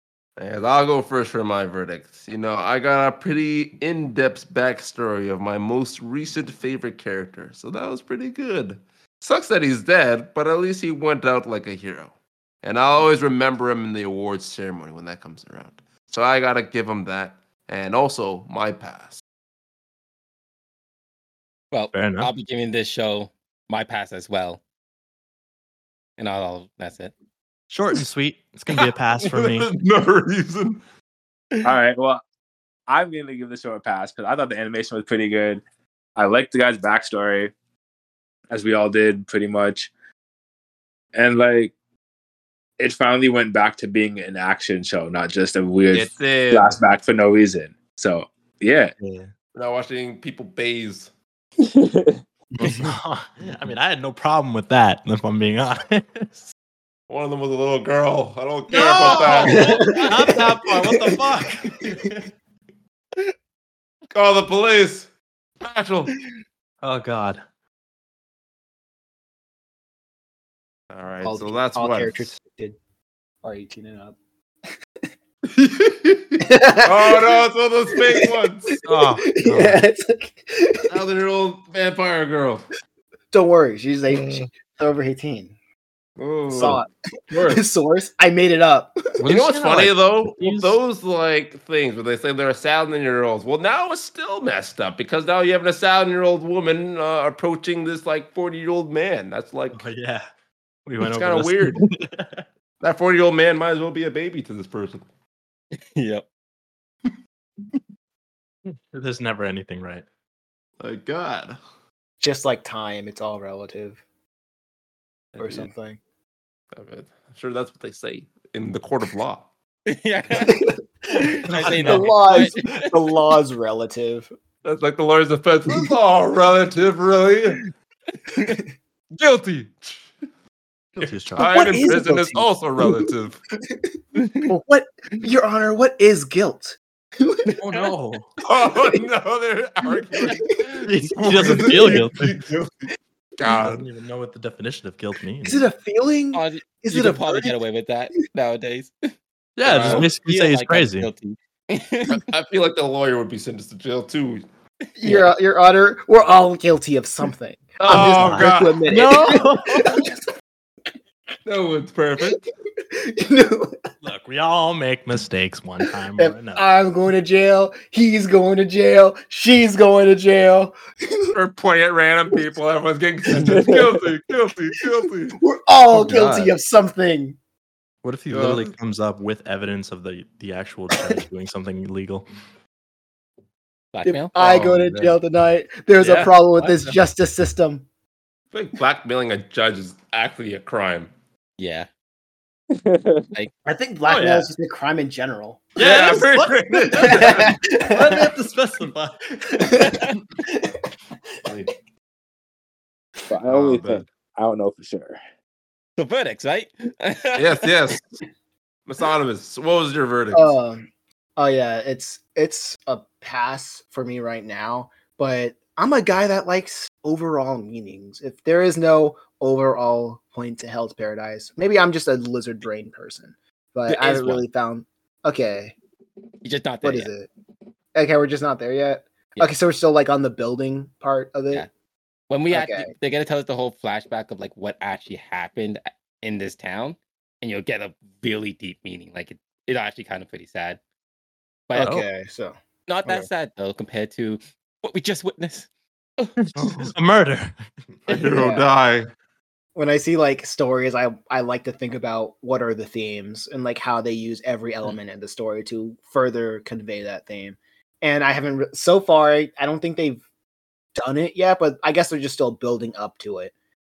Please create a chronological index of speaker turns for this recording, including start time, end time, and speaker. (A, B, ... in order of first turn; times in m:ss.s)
0:00.4-0:12.1 A
0:12.6-0:19.2 A
0:21.7-0:24.6 B
0:21.9-0:22.3 C
0:26.2-0:27.1 B
0:27.7-0:29.7 C
0:29.2-0:30.8 A
0:31.6-0:32.2 D
0:32.9-0:35.6 D
0:36.2-0:37.5 D
0:38.5-0:39.9 D
0:41.1-0:41.7 D
0:42.8-0:48.9 D
0:45.9-0:46.8 A
0:49.0-0:49.3 C
0:49.5-0:51.1 A
0:51.8-0:52.1 D
0:52.5-0:56.4 C
0:57.1-1:00.0 A
0:58.7-1:02.2 C
0:59.1-1:01.2 E
1:04.1-1:05.1 A
1:05.6-1:06.1 A
1:06.8-1:07.4 C
1:10.9-1:12.3 A
1:11.2-1:12.8 E
1:13.4-1:14.2 E
1:15.5-1:18.8 A
1:16.4-1:17.4 E
1:18.0-1:20.9 E
1:18.8-1:19.8 C
1:20.9-1:22.7 A
1:23.3-1:25.5 E
1:24.1-1:24.4 A
1:26.2-1:26.8 A
1:26.5-1:29.1 E
1:29.2-1:30.8 C
1:29.3-1:39.9 A
1:39.7-1:40.3 C
1:40.9-1:42.4 C
1:41.0-1:41.9 A
1:42.8-1:45.0 A
1:46.0-1:46.2 B
1:48.7-1:50.0 C
1:50.8-1:51.6 A
1:52.2-1:54.0 E
1:55.4-1:55.7 A
1:55.4-1:56.0 E
1:56.7-1:59.5 A
1:59.9-2:00.6 B
2:00.3-2:04.3 E
2:01.1-2:02.8 B
2:01.4-2:02.5 C
2:04.6-2:07.6 A
2:08.3-2:08.6 B
2:09.2-2:10.1 A
2:11.0-2:11.6 C
2:11.0-2:13.4 A
2:11.4-2:13.1 E
2:13.6-2:13.9 E
2:14.2-2:14.5 B
2:14.4-2:17.5 E
2:17.6-2:18.3 C
2:18.4-2:23.9 A
2:18.7-2:19.0 E
2:19.9-2:20.7 E
2:20.8-2:22.4 C
2:21.3-2:22.0 E
2:23.4-2:25.6 C
2:25.4-2:27.6 E
2:26.3-2:28.9 B
2:29.6-2:31.1 C
2:29.6-2:30.1 A
2:29.7-2:32.2 B
2:32.1-2:34.4 A
2:35.0-2:40.2 E
2:35.0-2:35.3 B
2:37.8-2:38.9 A
2:37.9-2:40.1 C
2:41.5-2:42.4 A
2:42.9-2:43.8 E
2:44.0-2:46.6 C
2:46.2-2:51.4 E
2:51.3-2:55.4 A
2:53.4-2:54.0 D
2:55.4-2:57.4 E
2:56.0-2:56.4 C
2:58.0-3:02.3 C
2:58.3-2:58.7 A
3:03.9-3:04.4 B
3:04.0-3:07.8 E
3:04.4-3:05.2 A
3:06.0-3:06.3 A
3:06.5-3:07.0 C
3:08.5-3:11.1 A
3:11.6-3:11.9 B
3:12.7-3:13.3 D
3:13.6-3:15.9 E
3:14.0-3:14.5 C
3:15.8-3:19.2 C
3:15.8-3:17.6 A
3:17.0-3:18.3 E
3:19.4-3:20.8 E
3:19.9-3:20.1 B
3:21.5-3:21.7 A
3:23.3-3:25.2 D
3:23.4-3:24.1 A
3:26.0-3:27.7 B
3:27.4-3:28.2 A
3:28.9-3:30.6 A
3:30.3-3:30.9 E
3:31.4-3:45.8 E
3:43.9-3:44.4 B
3:46.4-3:47.1 B
3:46.8-3:47.3 E
3:48.0-3:51.7 E
3:52.3-4:00.8 B
3:52.5-3:52.9 E
4:01.8-4:03.3 E
4:01.8-4:02.1 C
4:02.9-4:06.8 B
4:06.5-4:07.6 C
4:08.1-4:09.1 A
4:08.3-4:08.7 E
4:09.8-4:20.2 E
4:21.0-4:23.5 E